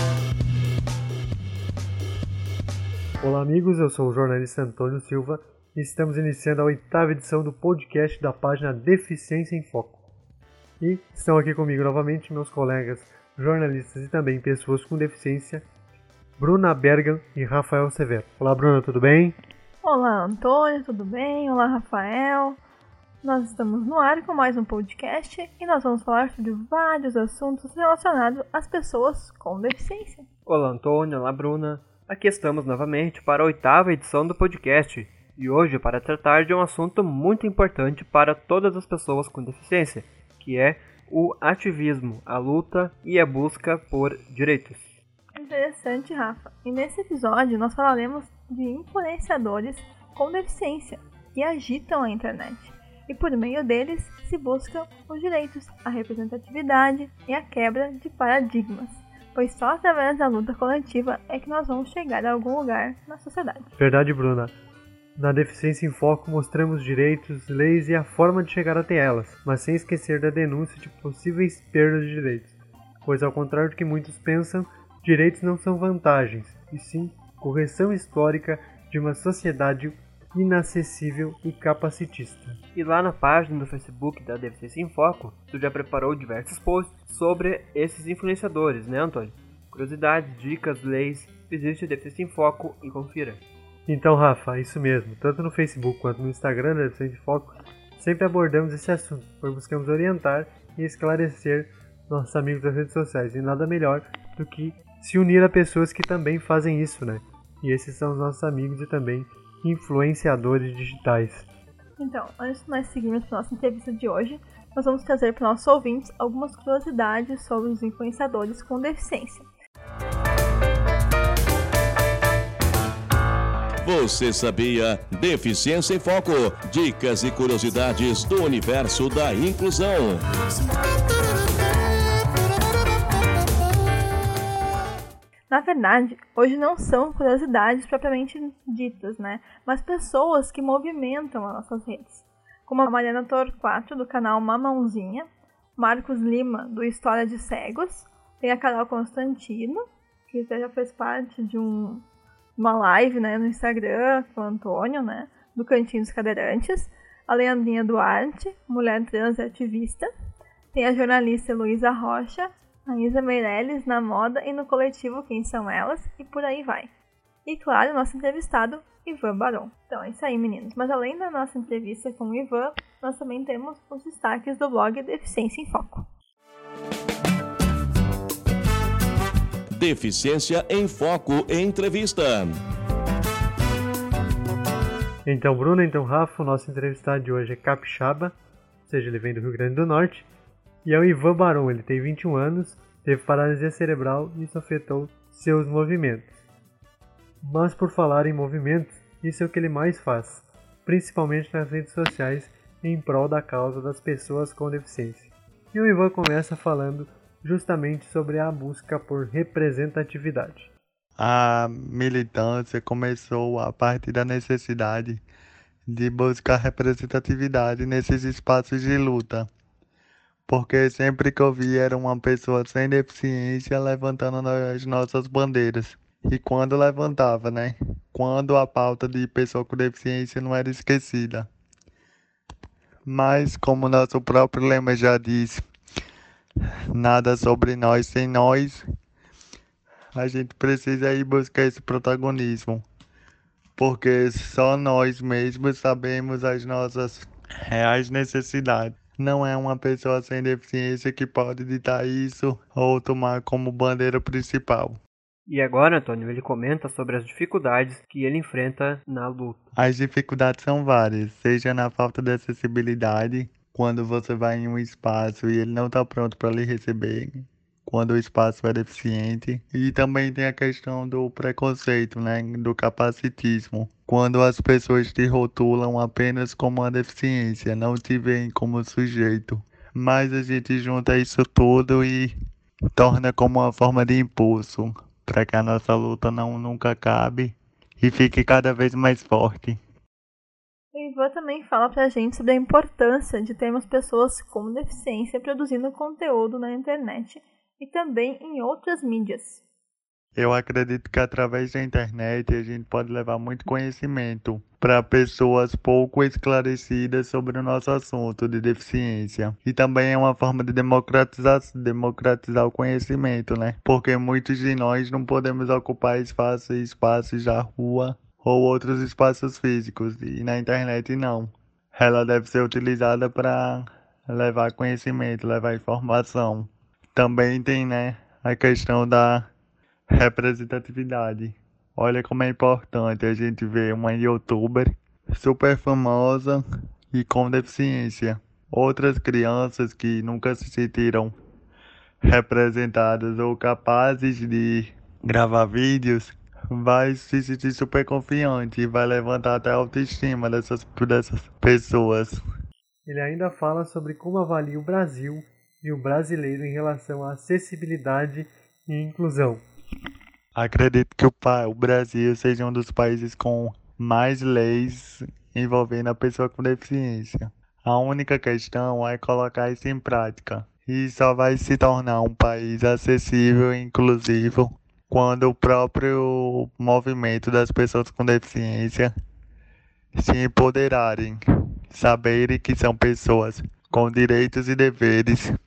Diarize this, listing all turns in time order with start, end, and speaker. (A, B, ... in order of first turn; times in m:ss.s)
0:03.2-0:10.0 A
0:10.8-0:15.6 A
0:16.4-0:19.4 A
0:19.8-0:22.6 B
0:23.2-0:30.2 B
0:30.5-0:44.8 C
0:45.4-1:03.7 B
1:03.8-1:04.5 A
1:05.2-1:22.6 A
1:22.7-1:33.4 C
1:33.9-1:51.4 A
1:52.0-1:59.4 B
2:03.8-2:10.2 D
2:15.5-2:32.0 B
2:32.6-2:40.1 B
2:40.7-2:46.9 B
2:47.4-2:56.1 B
2:59.7-3:02.6 D
3:05.2-3:08.3 A
3:08.9-3:10.3 A
3:10.8-3:16.3 A
3:17.4-3:30.7 A
3:31.2-3:35.2 E
3:35.9-3:39.5 E
3:40.5-3:51.5 E
3:53.0-3:55.6 E
3:56.9-3:58.8 E
4:00.1-4:02.8 E
4:03.8-4:15.0 E
4:15.5-4:19.6 C
4:19.8-4:42.3 E
4:43.0-4:49.8 E
4:50.9-4:59.6 B
5:00.4-5:29.5 E
5:30.1-5:41.3 E
5:42.2-5:52.4 E
5:53.0-5:59.6 A
6:00.6-6:19.1 E
6:20.2-6:21.4 E
6:21.9-6:25.5 E